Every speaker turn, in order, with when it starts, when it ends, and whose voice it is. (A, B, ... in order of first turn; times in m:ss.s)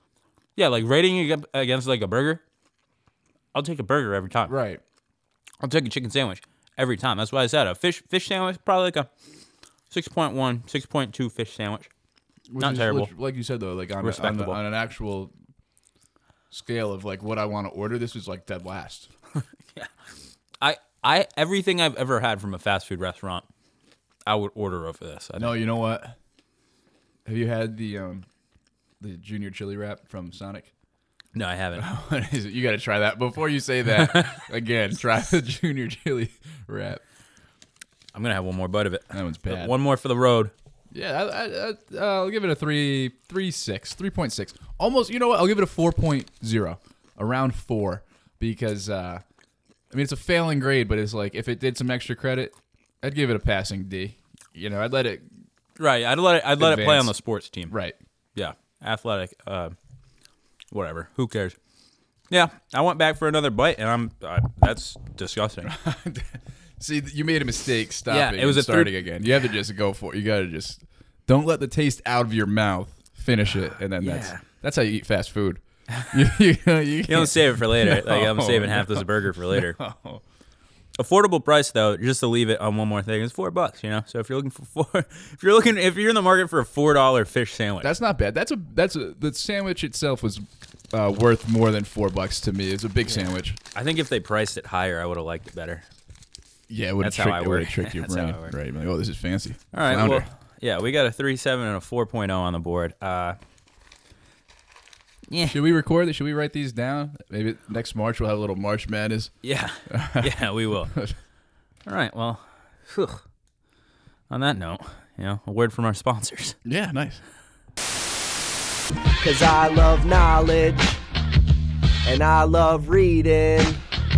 0:00.6-0:02.4 A
0:03.5-0:04.6 A
0:04.5-0:04.8 B
0:05.6-0:09.1 A
0:09.9-0:11.9 A
0:12.5-0:15.3 B
0:12.6-0:13.1 A
0:14.0-0:14.6 A
0:16.5-0:19.1 B
0:19.4-0:19.9 A
0:20.6-0:23.4 A
0:24.2-0:25.6 A
0:25.4-0:26.2 B
0:27.2-0:28.3 B
0:29.0-0:30.7 B
0:31.3-0:31.9 A
0:31.8-0:37.0 B
0:34.0-0:34.4 A
0:38.1-0:40.5 A
0:39.1-0:39.8 B
0:40.9-0:49.2 B
0:49.9-0:55.3 B
0:55.8-0:57.7 A
0:56.6-0:57.2 B
0:57.7-0:58.0 B
0:58.3-0:59.7 A
1:00.7-1:01.6 A
1:02.3-1:05.7 A
1:05.6-1:20.2 B
1:08.1-1:08.9 A
1:14.0-1:14.4 A
1:15.9-1:16.2 A
1:17.0-1:19.8 A
1:20.9-1:27.9 A
1:27.8-1:33.6 B
1:33.7-1:35.9 A
1:36.7-1:40.3 B
1:37.0-1:38.5 A
1:39.7-1:43.4 A
1:45.3-1:45.6 A
1:45.5-1:51.1 B
1:49.4-1:50.9 A
1:51.8-1:53.2 A
1:54.3-1:56.6 A
1:56.6-1:57.2 B
1:59.2-2:01.0 C
2:02.0-2:03.8 C